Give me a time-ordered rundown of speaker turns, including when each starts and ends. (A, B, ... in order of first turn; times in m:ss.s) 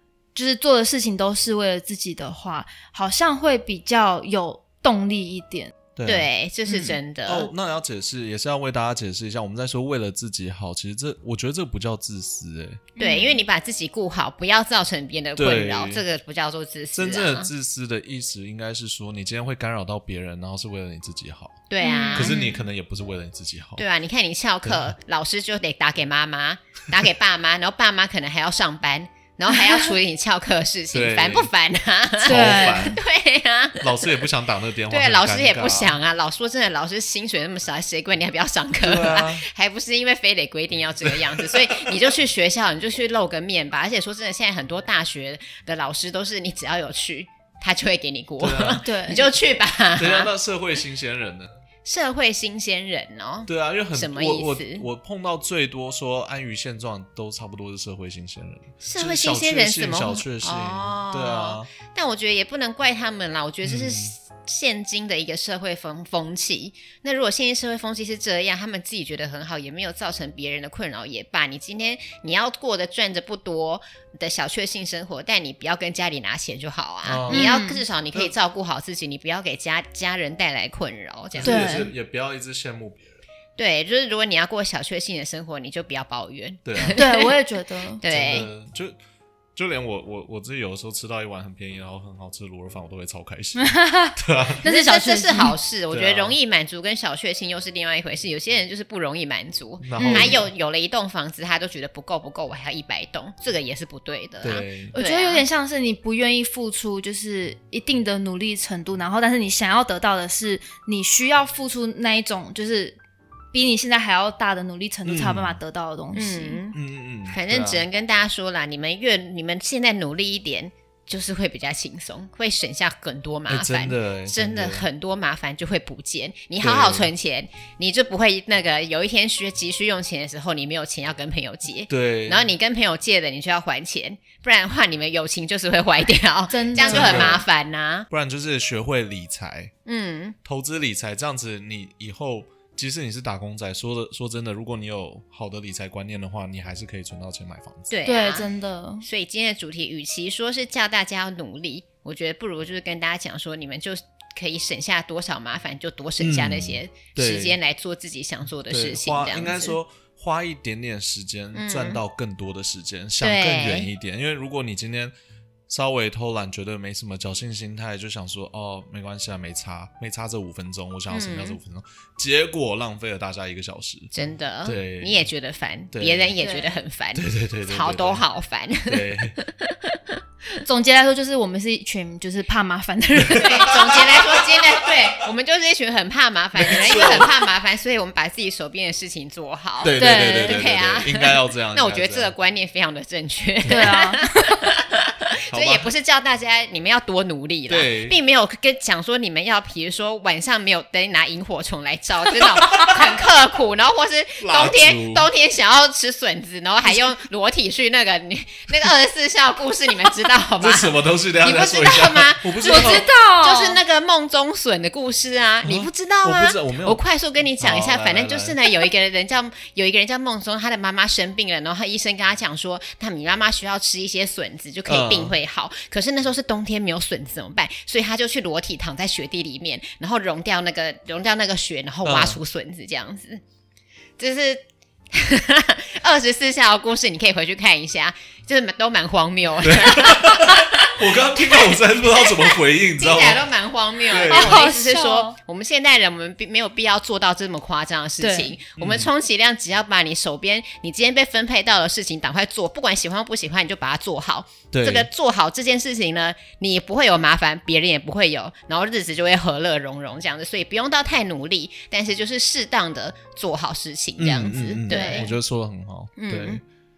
0:00.3-0:05.7 A
0:06.0-0:06.3 B
0:06.0-0:07.5 C
0:06.7-0:06.9 A
0:07.2-0:12.9 B
0:13.0-0:13.4 A
0:13.0-0:17.5 C
0:15.4-0:16.0 B
0:16.9-0:23.8 B
0:21.7-0:22.4 C
0:21.8-0:22.6 A
0:23.8-0:34.2 C
0:24.6-0:25.0 B
0:29.5-0:29.9 A
0:30.9-0:31.5 B
0:32.2-0:33.0 B
0:32.2-0:33.0 A
0:33.8-0:36.0 B
0:34.9-0:50.3 C
0:38.8-0:39.4 B
0:41.0-0:42.0 B
0:48.4-0:48.8 B
0:48.8-0:49.3 A
0:50.0-0:51.5 B
0:51.8-0:54.8 C
0:53.5-1:01.7 B
0:58.8-1:21.8 C
1:03.6-1:04.1 B
1:17.0-1:17.6 B
1:17.3-1:17.8 A
1:21.3-1:23.2 B
1:21.4-1:21.9 A
1:23.6-1:27.4 C
1:26.6-1:27.0 B
1:27.0-1:28.0 A
1:28.0-1:28.5 C
1:28.1-1:29.0 B
1:29.5-1:34.6 B
1:33.6-1:35.6 A
1:34.6-1:45.5 C
1:35.9-1:36.4 B
1:39.8-1:40.5 B
1:40.0-1:40.4 A
1:44.4-1:44.9 B
1:44.9-1:53.0 A
1:53.5-1:56.6 A
1:55.0-1:55.6 B
1:56.1-2:18.1 C
1:56.7-1:57.8 B
2:03.5-2:04.8 B
2:06.6-2:07.1 B
2:11.9-2:12.5 B
2:16.5-2:17.4 A
2:16.8-2:17.4 B
2:18.1-2:19.7 B
2:19.8-2:20.4 C
2:20.4-2:28.0 B
2:27.9-2:28.5 C
2:28.0-2:29.0 A
2:29.0-2:39.8 C
2:36.2-2:37.6 B
2:38.7-2:45.1 B
2:41.5-2:42.0 C
2:43.2-2:43.9 C
2:45.7-2:54.1 B
2:51.1-2:51.6 C
2:54.1-3:00.2 C
2:54.6-2:55.3 B
2:55.9-2:56.4 B
2:56.4-2:56.8 A
2:57.1-2:58.2 B
2:58.8-2:59.4 B
3:00.6-3:03.9 A
3:03.3-3:04.9 B
3:03.4-3:53.4 C
3:06.5-3:07.5 B
3:09.8-3:12.3 B
3:10.0-3:10.7 A
3:13.6-3:13.9 B
3:13.7-3:14.6 A
3:15.5-3:15.9 B
3:17.7-3:18.2 B
3:24.4-3:25.3 B
3:30.6-3:33.1 B
3:32.6-3:33.8 A
3:35.6-3:37.0 B
3:37.6-3:38.6 B
3:44.9-3:45.3 B
3:52.0-3:52.4 B
3:54.2-4:25.3 C
3:59.6-4:03.5 B
4:04.1-4:04.7 B
4:04.3-4:05.4 A
4:08.2-4:08.5 A
4:08.8-4:09.1 B
4:14.7-4:15.1 B
4:24.2-4:26.6 B
4:24.9-4:25.3 A
4:26.2-4:26.6 C